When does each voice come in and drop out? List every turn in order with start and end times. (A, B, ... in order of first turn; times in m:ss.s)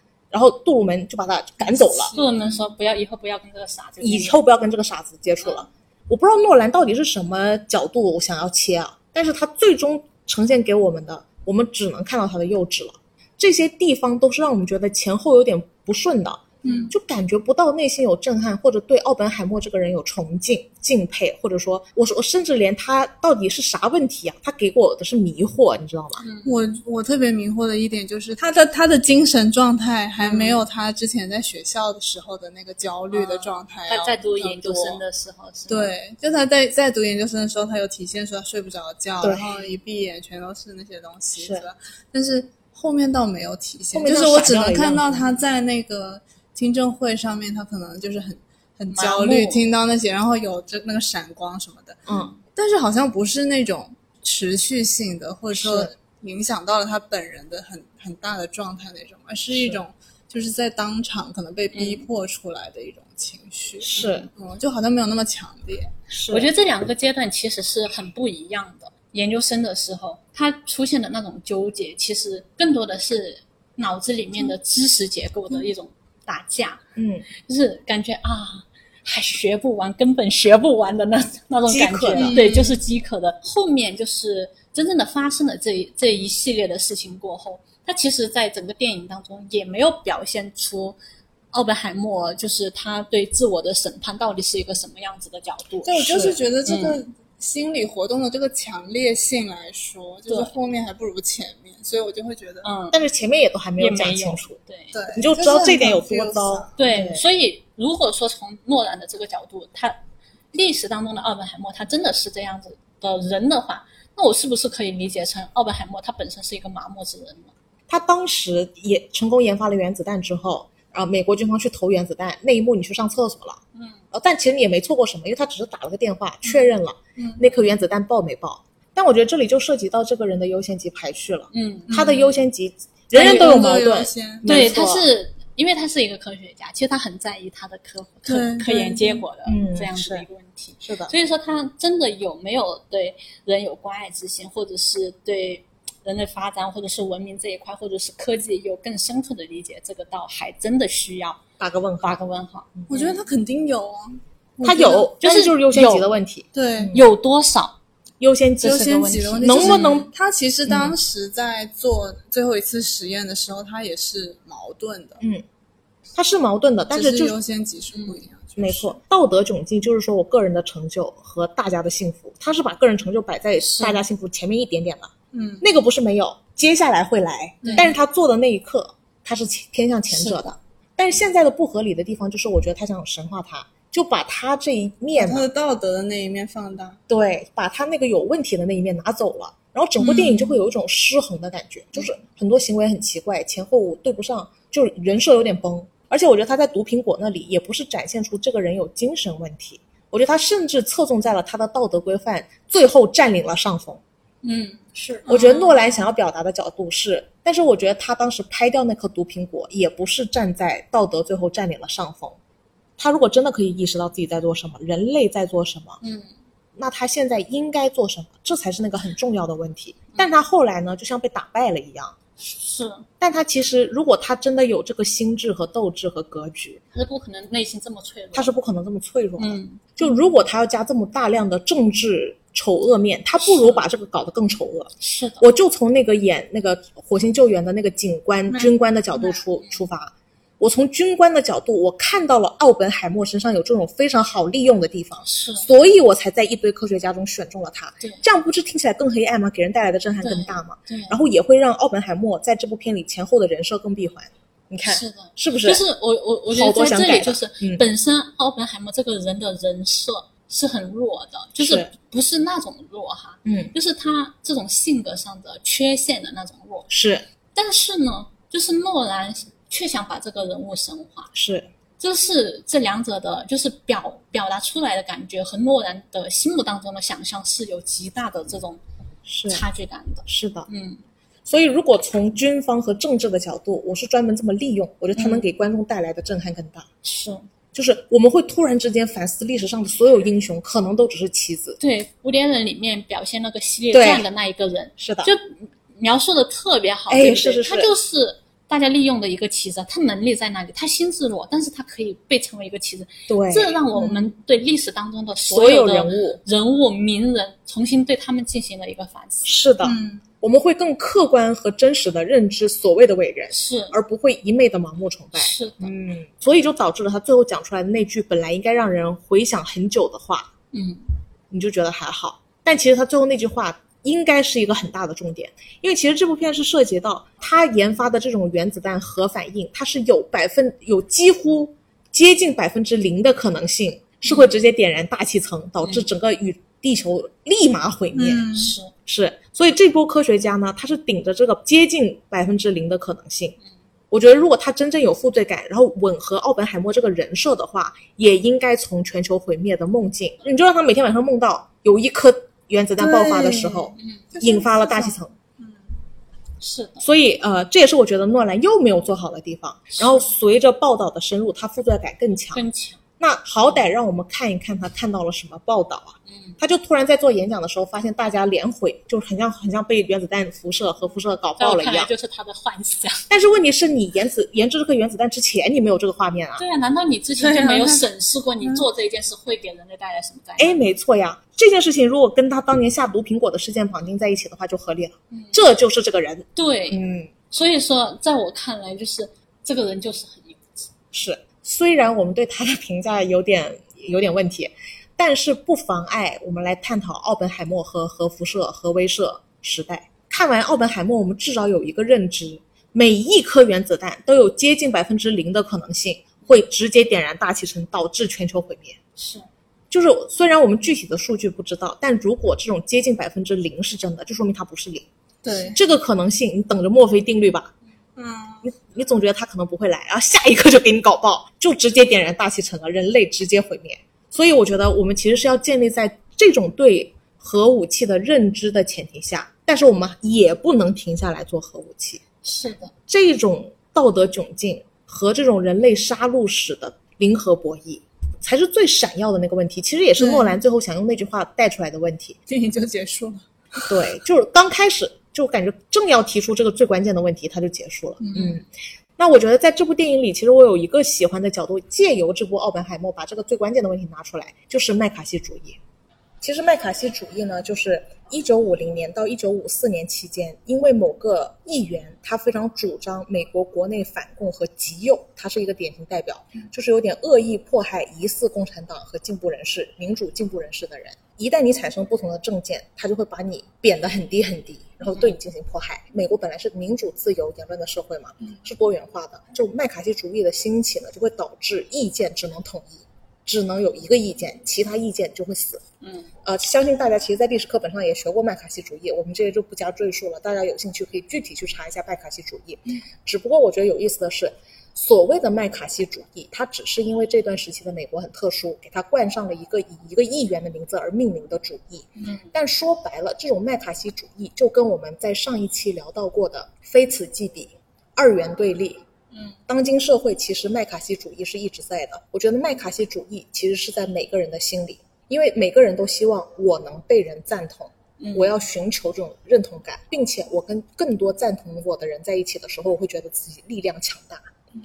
0:00.3-0:02.1 A
0:01.6-0:02.6 B
0:02.1-0:04.4 C
0:04.0-0:26.2 A
0:16.6-0:16.9 B
0:16.6-0:16.9 C
0:26.2-0:26.7 C
0:26.4-0:35.0 B
0:30.2-0:30.6 C
0:33.1-0:35.9 C
0:35.7-1:05.9 B
0:39.2-0:39.5 A
0:41.4-0:41.6 A
0:43.9-0:45.4 A
0:48.9-0:49.6 C
0:52.1-0:52.3 A
0:55.5-0:55.9 A
0:59.5-0:59.8 A
1:01.7-1:02.0 C
1:03.8-1:04.3 A
1:06.1-1:06.5 A
1:06.3-1:16.8 C
1:17.0-1:17.2 A
1:17.4-1:31.0 C
1:21.7-1:22.4 A
1:22.2-1:22.8 B
1:31.5-1:37.0 C
1:35.8-1:42.7 B
1:36.0-1:36.4 A
1:40.3-1:40.5 C
1:42.6-1:43.0 C
1:42.9-1:44.6 A
1:43.8-1:45.0 C
1:44.9-1:46.8 B
1:45.1-1:47.2 A
1:46.8-1:50.0 C
1:50.5-1:57.5 C
1:57.9-2:03.6 A
2:03.7-2:04.0 C
2:04.1-2:15.0 A
2:07.2-2:07.4 B
2:11.5-2:12.1 C
2:11.9-2:12.3 B
2:13.1-2:14.6 B
2:14.4-2:31.4 C
2:18.2-2:19.2 B
2:19.4-2:20.2 A
2:20.8-2:21.1 A
2:31.6-2:32.2 A
2:32.0-2:33.2 C
2:32.9-2:35.1 B
2:34.6-2:37.0 A
2:35.2-2:36.1 C
2:36.5-2:36.9 B
2:36.9-2:37.8 C
2:38.2-2:38.9 A
2:38.6-2:40.1 C
2:38.6-2:45.2 B
2:39.4-2:40.1 A
2:40.7-2:41.0 A
2:46.1-2:47.4 A
2:46.9-2:49.0 B
2:47.9-2:48.2 C
2:48.6-3:05.5 A
2:53.6-2:54.0 C
2:55.3-2:55.6 B
2:57.6-2:57.9 B
2:57.6-2:57.9 C
3:00.1-3:00.4 C
3:05.2-3:07.0 B
3:07.1-3:24.0 A
3:10.0-3:10.4 C
3:24.4-3:25.8 C
3:25.3-3:32.4 A
3:33.0-3:36.0 A
3:36.0-3:36.3 C
3:36.7-3:42.2 A
3:42.4-3:43.0 C
3:43.2-3:46.8 A
3:46.9-3:48.5 C
3:48.3-4:15.8 A
3:49.4-3:50.0 C
3:53.4-3:53.8 C
3:55.0-3:55.4 C
3:58.5-3:59.8 C
4:05.2-4:05.6 C
4:10.2-4:11.2 C
4:14.8-4:26.9 C
4:16.5-4:17.8 A
4:21.6-4:21.9 A
4:23.4-4:23.7 A
4:26.9-4:27.2 A
4:27.5-4:31.3 C
4:31.3-4:31.7 A
4:32.0-4:38.8 C
4:39.2-4:39.6 A
4:39.5-4:41.0 C
4:40.2-4:40.7 A
4:41.4-4:46.9 A
4:45.2-4:45.5 C
4:47.0-4:47.5 C
4:47.7-4:51.8 A
4:51.8-5:09.6 C
4:53.9-4:54.2 A
4:55.0-4:55.3 A
4:57.1-4:57.9 A
5:03.3-5:03.8 A
5:03.9-5:04.2 B
5:05.4-5:06.4 A
5:09.4-5:20.5 A
5:09.8-5:10.2 B
5:13.5-5:13.9 C
5:15.3-5:15.9 C
5:20.7-5:21.0 C
5:21.5-5:38.5 A
5:38.1-5:38.7 B
5:38.5-5:38.9 C
5:39.0-5:43.6 A
5:44.1-5:55.3 A
5:53.0-5:55.9 B
5:54.0-5:54.2 C
5:56.6-5:57.0 C
5:57.0-6:02.6 A
5:59.9-6:00.2 C
6:02.5-6:03.0 C
6:03.2-6:12.1 A
6:06.3-6:06.6 C
6:11.1-6:13.2 C
6:13.3-6:16.6 A
6:16.6-6:20.8 C
6:17.4-6:18.0 B
6:20.6-6:27.3 A
6:25.3-6:25.6 C
6:26.6-6:27.0 C
6:27.5-6:30.9 C
6:31.1-6:49.0 A
6:49.2-6:49.5 C
6:49.9-6:55.1 A
6:55.4-6:55.8 B
6:55.7-6:57.7 A
6:58.2-6:58.7 B
6:58.6-7:12.2 A
7:12.4-7:12.9 C
7:13.1-7:22.4 A
7:20.2-7:20.6 B
7:22.5-7:24.0 B
7:23.9-7:28.6 A
7:28.2-7:28.6 B
7:29.2-7:35.8 A
7:36.4-8:05.8 A
8:06.0-8:06.3 C
8:06.4-8:29.0 A
8:22.2-8:22.5 C
8:29.7-8:44.5 A
8:38.2-8:38.5 C